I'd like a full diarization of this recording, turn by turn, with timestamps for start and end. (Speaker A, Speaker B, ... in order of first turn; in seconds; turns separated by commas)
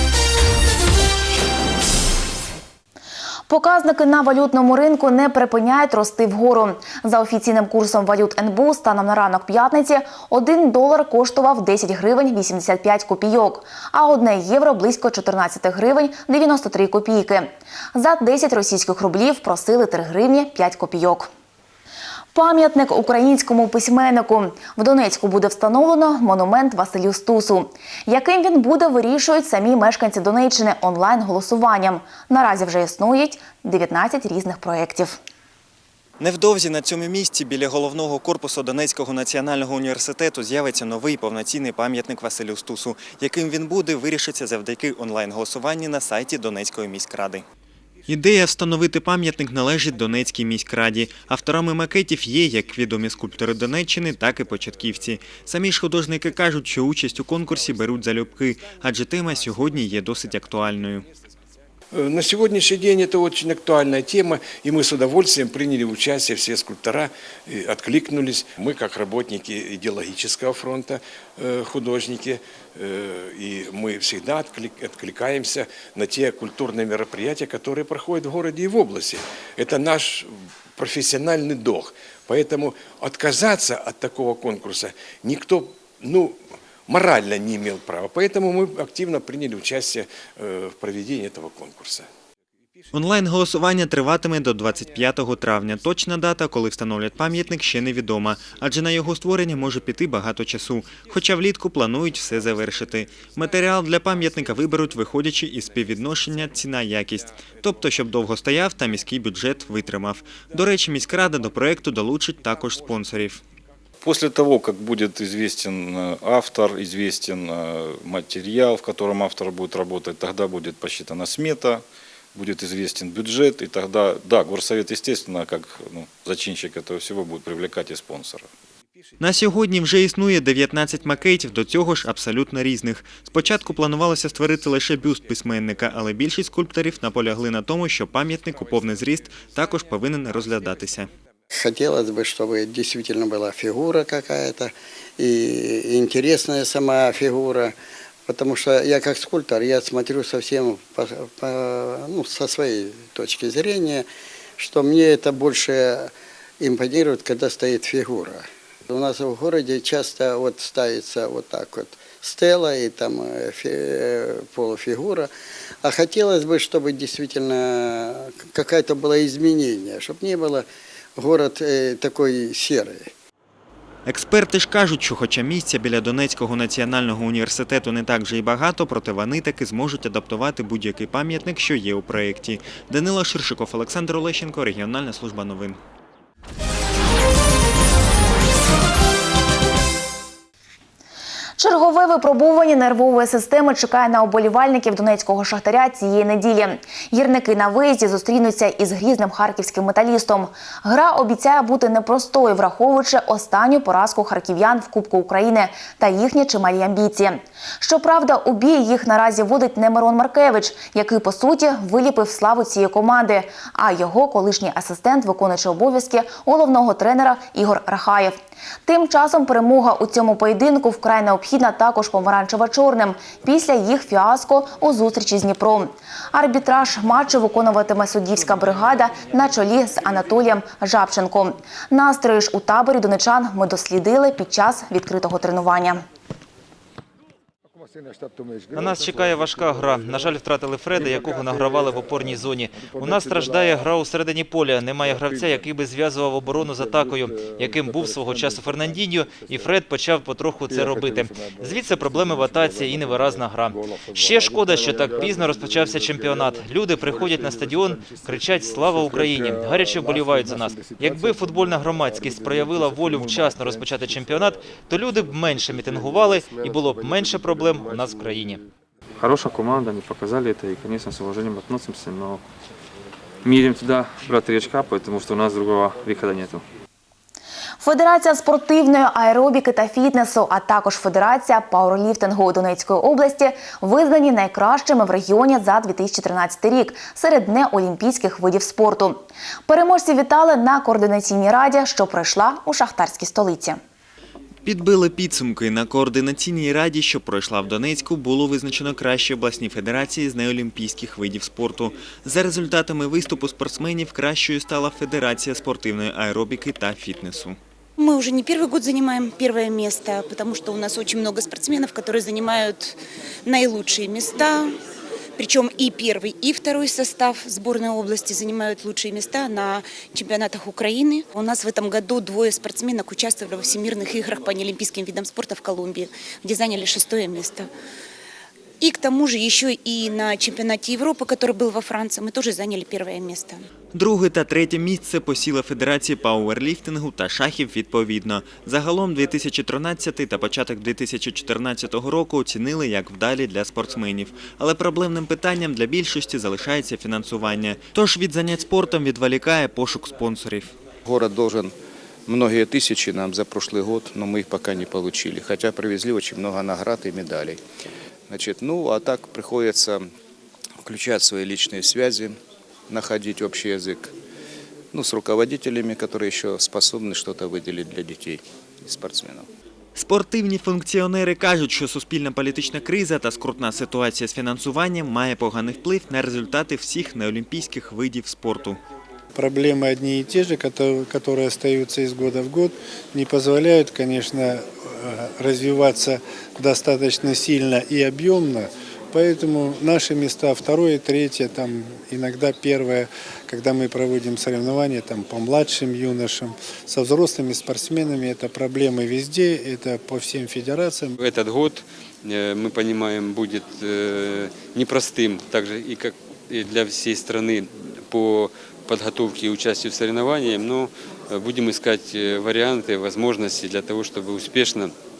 Speaker A: 3.5-21.3, Speaker A: 22.3-35.2, Speaker B: 36.2-47.4, Speaker B: 48.1-61.1, Speaker C: 61.9-86.3, Speaker C: 86.9-92.1, Speaker B: 92.9-113.4, Speaker D: 114.0-128.5, Speaker B: 129.2-141.1, Speaker E: 141.5-147.7, Speaker E: 148.3-165.3, Speaker E: 165.8-173.1, Speaker B: 174.1-185.8, Speaker A: 191.6-236.0, Speaker F: 238.7-268.6, Speaker G: 269.2-272.4, Speaker G: 273.4-276.6, Speaker A: 277.8-293.8, Speaker B: 294.6-307.6, Speaker H: 308.0-314.7, Speaker H: 315.4-327.7, Speaker H: 328.8-333.6, Speaker B: 333.9-350.8, Speaker I: 351.1-351.7, Speaker I: 352.3-357.6, Speaker I: 358.3-360.1, Speaker I: 360.8-362.4, Speaker I: 362.9-364.1, Speaker I: 364.9-369.5, Speaker B: 369.9-378.8, Speaker J: 379.3-401.1, Speaker K: 401.2-414.9